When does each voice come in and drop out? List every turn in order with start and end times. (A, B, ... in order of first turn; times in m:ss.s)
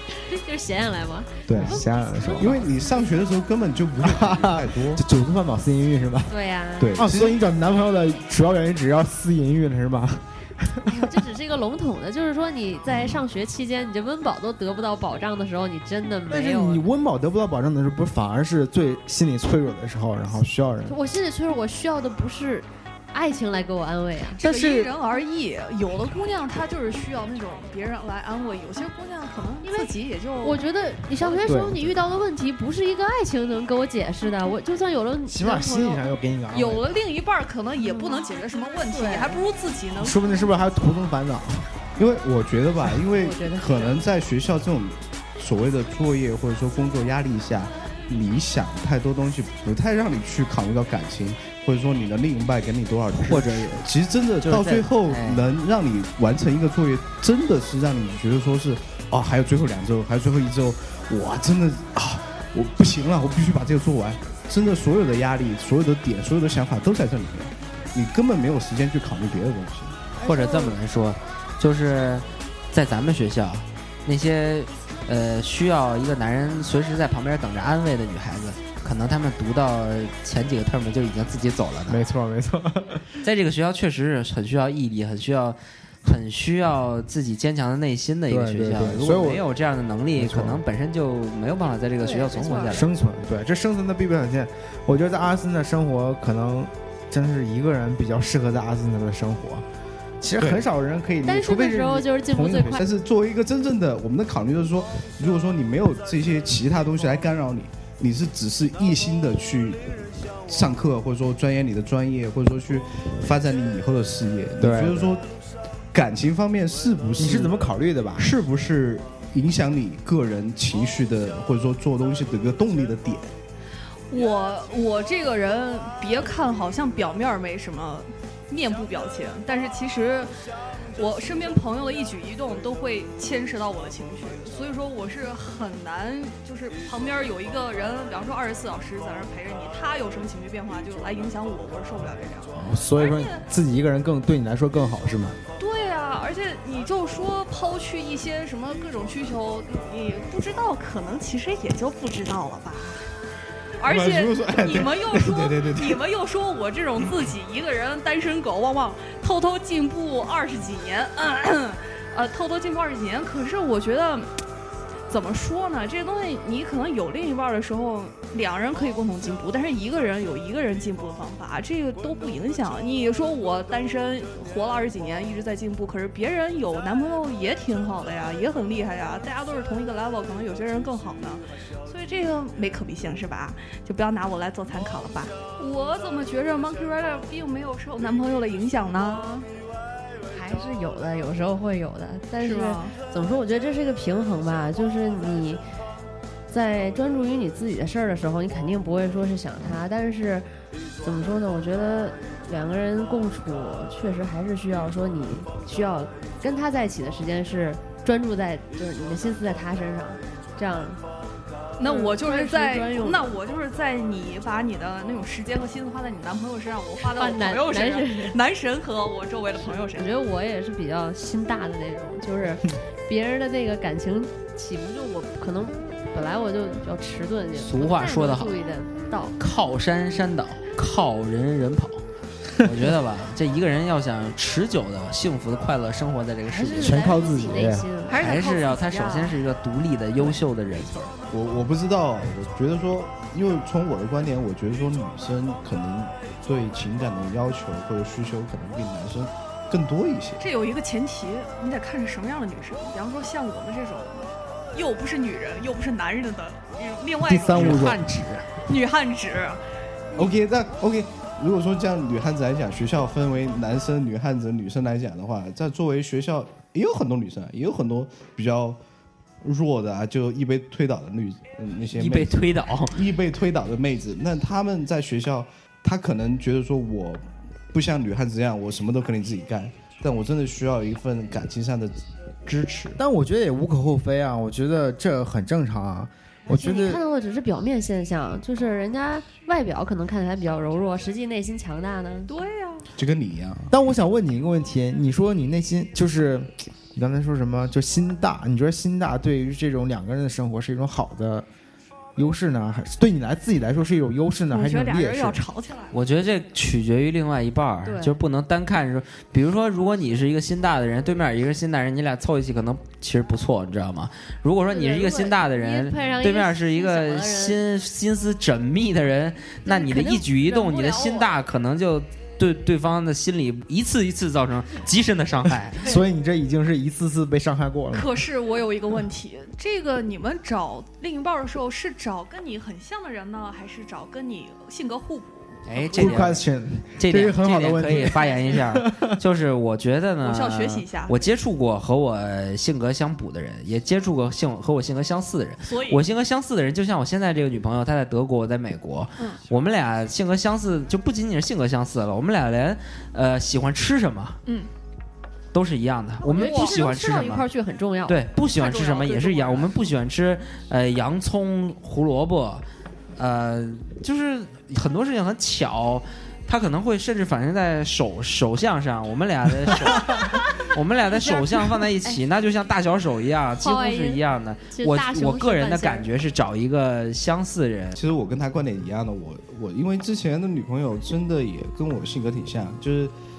0:00.1-0:02.6 A
0:01.5-0:02.7 B
0:01.5-0:01.8 C
0:02.4-0:05.0 C
0:04.0-0:06.3 B
0:06.3-0:07.0 A
0:06.8-0:07.4 C
0:06.9-0:11.2 B
0:10.9-0:16.8 A
0:16.3-0:21.0 B
0:20.8-0:24.4 A
0:24.4-0:30.6 D
0:24.4-0:24.9 B
0:29.6-0:36.1 A
0:31.3-0:31.9 B
0:35.3-0:36.9 B
0:36.5-0:40.5 D
0:37.8-0:38.3 A
0:38.9-0:39.4 A
0:40.0-0:41.7 B
0:42.0-1:10.0 C
0:43.1-0:44.0 A
0:54.4-0:55.5 E
1:10.2-1:10.8 A
1:10.2-1:22.0 E
1:21.9-1:23.1 B
1:23.2-1:32.8 E
1:28.3-1:29.4 B
1:30.1-1:30.6 B
1:32.0-1:32.8 A
1:32.7-1:39.6 B
1:40.2-1:42.8 B
1:40.4-1:40.6 C
1:41.2-1:42.8 A
1:42.8-1:49.8 C
1:50.5-1:55.3 C
1:54.6-1:55.2 B
1:55.9-1:57.5 C
1:57.2-1:58.3 B
1:58.2-2:03.3 C
2:04.1-2:10.3 D
2:10.9-2:23.4 D
2:22.5-2:25.4 B
2:25.6-2:33.1 D
2:33.8-2:44.3 D
2:33.8-2:36.0 C
2:45.1-3:09.5 D
3:10.3-3:15.6 A
3:12.4-3:12.9 D
3:16.5-3:20.5 A
3:21.0-3:31.0 A
3:31.8-3:40.1 D
3:31.8-3:33.4 A
3:37.0-3:38.4 A
3:39.9-3:49.3 A
3:47.6-3:48.6 E
3:49.4-3:52.0 E
3:52.6-3:57.0 E
3:56.5-3:58.2 A
3:56.8-3:57.9 B
3:58.0-3:59.4 D
3:58.2-4:01.1 E
4:01.3-4:10.4 C
4:10.4-4:18.0 D
4:17.2-4:18.0 B
4:17.5-4:18.5 E
4:18.6-4:19.6 D
4:20.1-4:28.8 C
4:29.4-4:43.0 C
4:31.9-4:33.0 E
4:43.0-4:47.0 B
4:46.5-4:52.3 A
4:52.3-4:52.9 D
4:53.0-4:53.7 C
4:53.7-5:01.5 B
5:02.2-5:05.4 B
5:04.5-5:06.0 D
5:05.9-5:25.8 E
5:07.8-5:08.2 A
5:14.7-5:17.6 A
5:19.6-5:21.3 A
5:25.8-5:28.3 B
5:27.9-5:36.4 D
5:35.6-5:36.4 E
5:36.0-5:39.1 B
5:37.0-5:54.4 E
5:38.1-5:38.5 D
5:40.2-5:41.3 D
5:45.6-5:46.0 D
5:49.2-5:49.4 D
5:55.5-5:57.4 E
5:56.2-5:58.2 A
5:56.3-5:56.9 D
5:58.1-6:02.6 E
5:58.5-5:59.7 D
6:03.2-6:18.0 E
6:10.0-6:10.4 A
6:11.1-6:12.2 A
6:13.6-6:16.1 A
6:18.0-6:23.1 C